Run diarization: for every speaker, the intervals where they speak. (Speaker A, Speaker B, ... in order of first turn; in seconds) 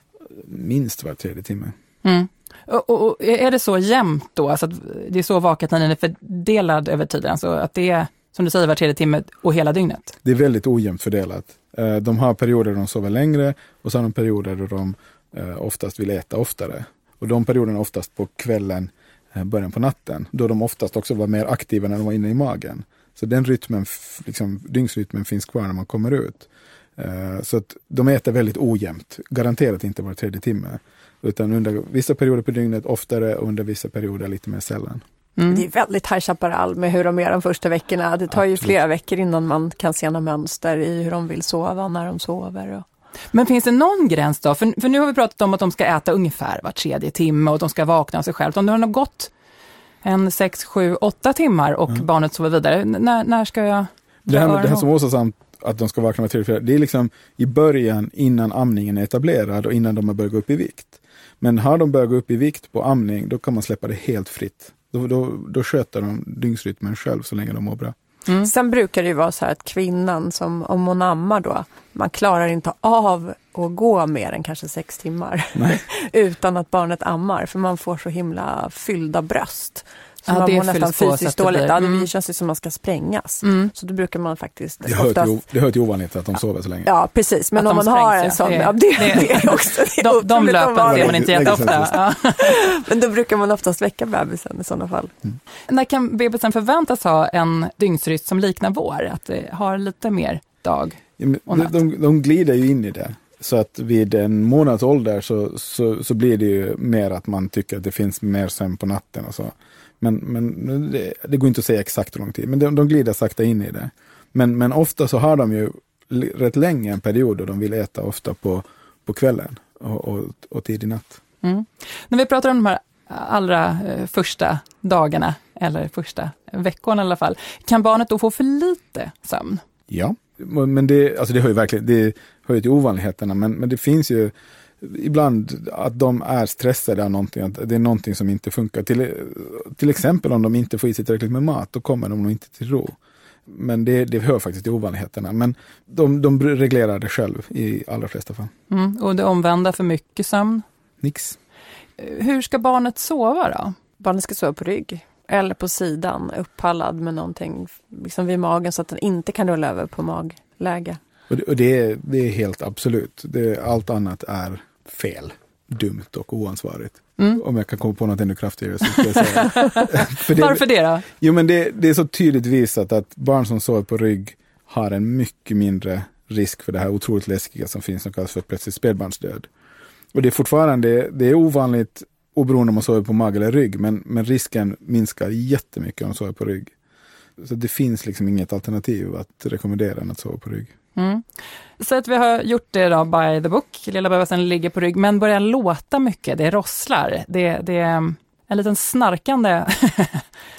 Speaker A: 0.2-1.8, 10.2-35.0, 38.3-38.7, 54.3-68.0, 75.5-75.8, 84.8-86.9, 90.8-92.0, 101.2-121.2, 129.9-148.5, 151.0-151.4, 161.3-179.5, 180.1-186.7, 187.4-190.7
Speaker B: 2.0-10.1, 35.4-35.6, 43.3-49.3, 50.0-54.9, 80.3-82.1, 83.4-83.7, 87.6-92.5, 95.7-101.8, 121.4-129.6, 148.7-150.7, 152.0-153.8, 169.0-171.1, 191.0-191.2, 191.8-200.2
Speaker C: 35.5-42.9, 68.4-85.4, 86.8-95.1, 154.0-161.0